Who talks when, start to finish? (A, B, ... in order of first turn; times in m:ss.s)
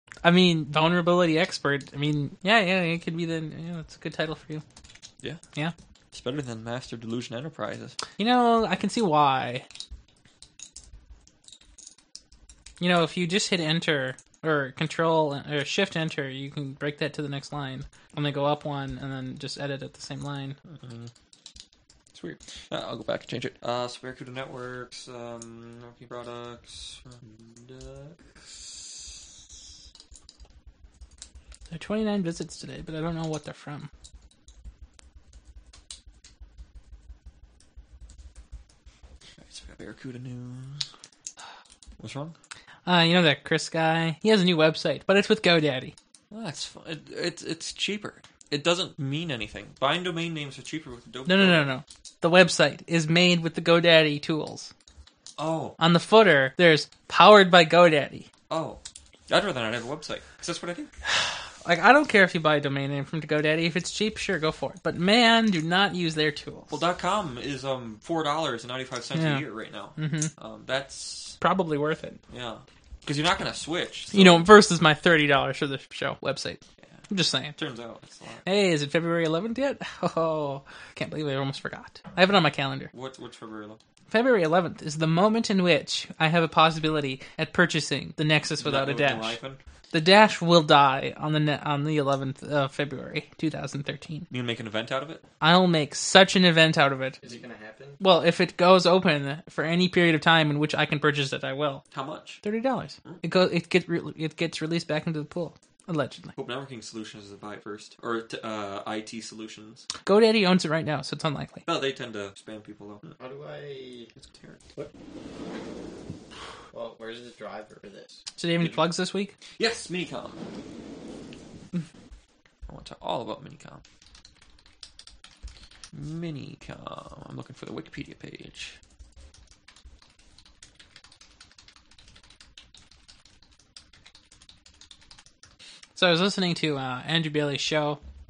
0:00.2-0:04.6 A
0:06.1-0:08.0 B
0:08.2-0:09.7 A
0:12.8-0:20.6 A
0:20.7-0:21.1 B
0:22.1-0:29.2 B
0:31.7-0:33.9 A
0:39.4-0:40.8 B
0:42.0-0:42.4 B
0:42.9-0:45.9 A
0:46.3-0:51.7 B
0:51.3-0:54.7 A
0:55.4-0:55.8 B
0:55.8-0:58.3 A
0:58.5-1:00.9 B
1:01.1-1:06.8 A
1:06.7-1:11.4 B
1:09.2-1:09.4 A
1:10.0-1:10.3 A
1:11.4-1:12.2 A
1:12.3-1:14.5 B
1:14.1-1:17.6 A
1:17.6-1:18.4 B
1:18.5-1:22.9 A
1:22.9-1:23.8 B
1:24.1-1:29.4 A
1:28.6-1:29.6 B
1:29.9-1:34.3 A
1:34.3-1:35.2 B
1:35.4-1:37.2 A
1:37.2-1:38.0 C
1:38.0-1:41.8 A
1:41.9-1:42.4 B
1:42.4-1:46.3 A
1:46.4-1:49.9 B
1:50.1-1:51.6 A
1:51.7-1:53.2 B
1:53.2-1:54.1 C
1:54.2-1:54.8 B
1:56.7-1:58.2 C
1:58.4-1:59.4 A
1:59.6-2:00.4 B
2:02.7-2:03.8 B
2:05.9-2:08.8 B
2:16.0-2:18.0 A